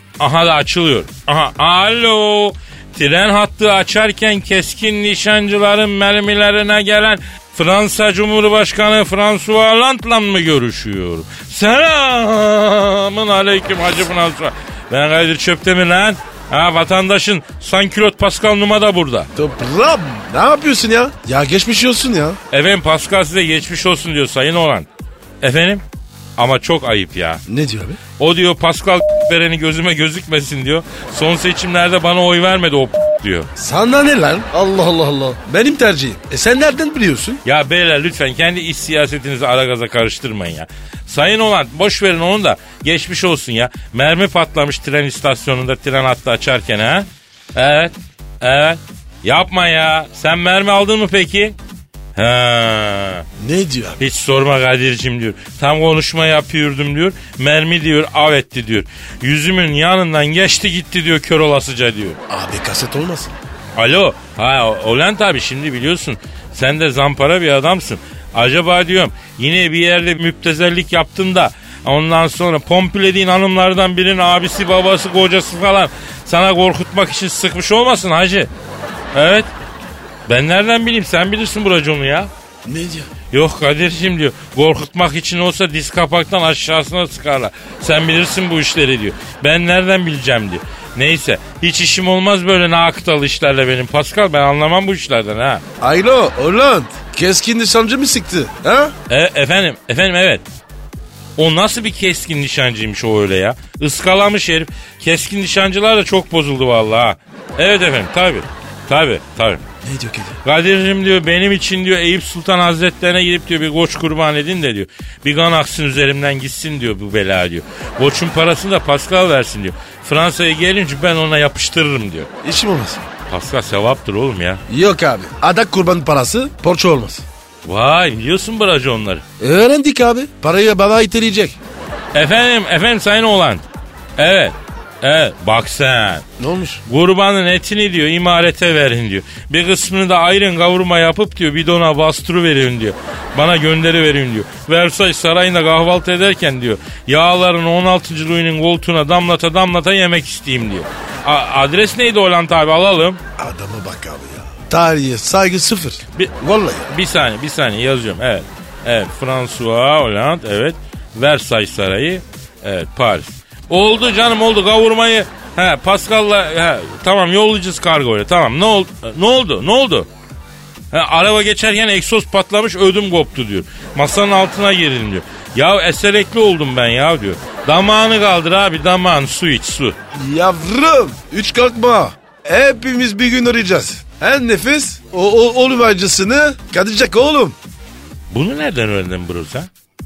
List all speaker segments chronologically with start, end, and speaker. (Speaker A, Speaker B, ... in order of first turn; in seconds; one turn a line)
Speaker A: 0.2-19.3
Speaker B: 19.4-22.4
Speaker A: 22.5-24.9
Speaker A: 25.4-25.8
Speaker A: 26.4-27.4
Speaker B: 27.5-28.0
Speaker A: 28.2-33.5
Speaker B: 33.5-37.4
Speaker A: 37.4-51.5
Speaker A: 52.1-53.2
Speaker B: 53.4-54.0
Speaker A: 54.0-62.2
Speaker B: 62.3-63.4
Speaker A: 63.8-78.5
Speaker A: 79.1-79.5
Speaker A: 80.3-82.3
Speaker B: 82.7-83.1
Speaker A: 83.3-95.6
Speaker B: 95.8-98.9
Speaker A: 99.1-100.4
Speaker A: 101.4-109.6
Speaker B: 109.8-110.4
Speaker A: 110.4-122.3
Speaker B: 122.4-123.1
Speaker A: 123.3-124.6
Speaker B: 124.7-127.2
Speaker A: 127.6-129.2
Speaker B: 129.4-131.6
Speaker A: 132.1-133.6
Speaker A: 134.2-136.2
Speaker B: 136.4-136.8
Speaker A: 136.8-153.2
Speaker B: 153.4-156.9
Speaker A: 156.9-170.1
Speaker A: 170.9-179.9
Speaker B: 180.1-187.6
Speaker A: 188.3-189.7